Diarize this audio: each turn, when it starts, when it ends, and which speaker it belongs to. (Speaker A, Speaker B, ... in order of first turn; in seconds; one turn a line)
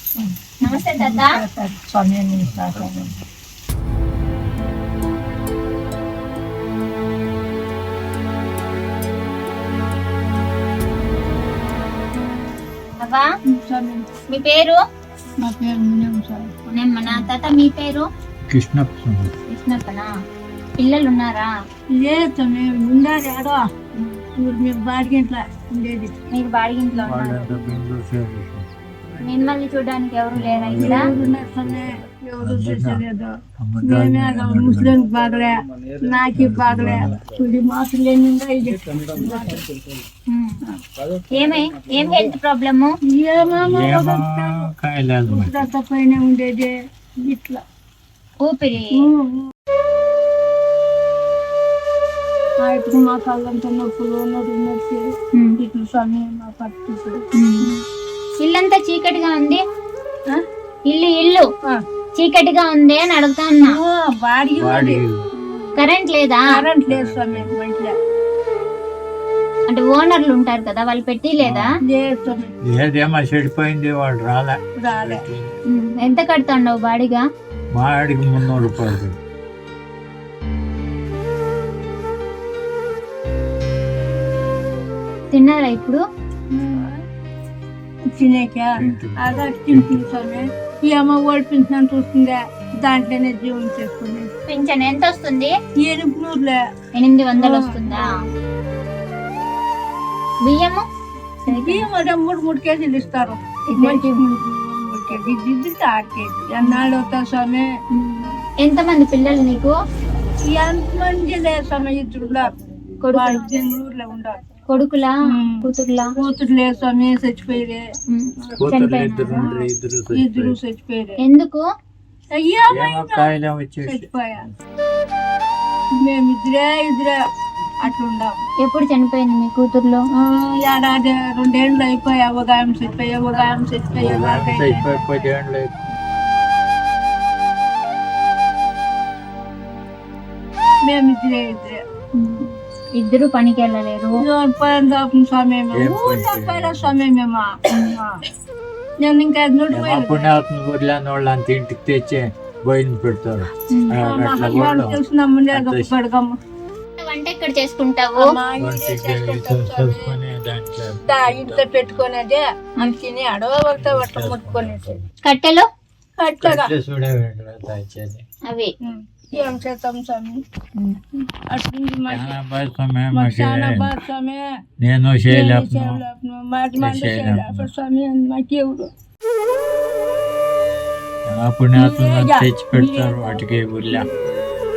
Speaker A: 0.1-3.1
Speaker B: 0.6-1.4
Speaker B: 13.0-13.2
Speaker A: 13.5-14.1
Speaker B: 14.3-14.8
Speaker A: 15.4-16.5
Speaker B: 16.7-18.0
Speaker C: 18.5-19.3
Speaker B: 19.5-20.1
Speaker B: 20.8-21.5
Speaker A: 21.9-23.6
Speaker A: 24.4-26.1
Speaker B: 26.3-27.5
Speaker C: 27.0-28.6
Speaker B: 29.2-31.0
Speaker C: 30.4-31.4
Speaker A: 30.8-33.3
Speaker C: 32.4-33.0
Speaker C: 33.6-35.0
Speaker A: 33.8-39.6
Speaker C: 36.3-37.1
Speaker B: 40.3-40.6
Speaker B: 41.3-42.9
Speaker A: 43.1-44.7
Speaker C: 43.6-45.7
Speaker A: 45.3-46.7
Speaker A: 47.2-47.6
Speaker B: 48.4-49.1
Speaker A: 48.9-49.5
Speaker A: 52.6-57.7
Speaker B: 57.3-57.7
Speaker B: 58.4-59.6
Speaker B: 60.9-61.5
Speaker B: 62.2-63.7
Speaker A: 63.6-65.0
Speaker C: 64.6-65.3
Speaker B: 65.8-66.4
Speaker A: 66.5-67.9
Speaker C: 66.9-67.5
Speaker B: 69.7-71.7
Speaker C: 71.4-71.7
Speaker A: 71.8-72.5
Speaker C: 72.6-75.5
Speaker A: 74.8-75.2
Speaker B: 75.7-77.2
Speaker C: 77.7-79.2
Speaker B: 85.3-86.0
Speaker A: 86.5-87.0
Speaker A: 88.1-94.3
Speaker C: 88.8-90.0
Speaker B: 94.5-95.5
Speaker A: 95.8-96.6
Speaker B: 96.9-98.0
Speaker A: 97.4-98.2
Speaker B: 100.4-100.8
Speaker B: 101.5-101.8
Speaker A: 101.5-107.7
Speaker B: 103.7-104.2
Speaker B: 107.9-109.7
Speaker A: 110.5-112.5
Speaker B: 113.0-113.5
Speaker A: 113.1-114.4
Speaker B: 114.7-116.1
Speaker A: 115.3-117.8
Speaker B: 118.1-119.5
Speaker C: 118.6-120.6
Speaker A: 120.1-121.2
Speaker B: 121.2-121.6
Speaker A: 122.3-123.3
Speaker C: 122.7-124.1
Speaker A: 123.8-124.5
Speaker A: 126.0-127.2
Speaker A: 127.8-128.4
Speaker B: 128.6-130.0
Speaker A: 130.2-135.2
Speaker C: 133.9-135.7
Speaker A: 140.8-141.8
Speaker B: 142.2-144.2
Speaker A: 144.2-148.2
Speaker C: 145.7-146.9
Speaker A: 149.0-150.3
Speaker C: 149.7-155.0
Speaker B: 153.7-154.0
Speaker A: 154.0-156.3
Speaker C: 155.5-155.9
Speaker B: 157.0-158.3
Speaker A: 158.2-160.1
Speaker C: 158.6-161.7
Speaker A: 161.1-165.0
Speaker C: 163.8-165.0
Speaker B: 165.2-165.7
Speaker A: 166.2-166.7
Speaker C: 166.4-168.2
Speaker A: 168.8-170.4
Speaker A: 171.5-172.3
Speaker C: 172.1-173.9
Speaker A: 173.1-174.4
Speaker C: 174.8-176.0
Speaker A: 175.3-178.9
Speaker C: 176.8-177.7
Speaker C: 181.3-184.1
Speaker A: 181.7-184.1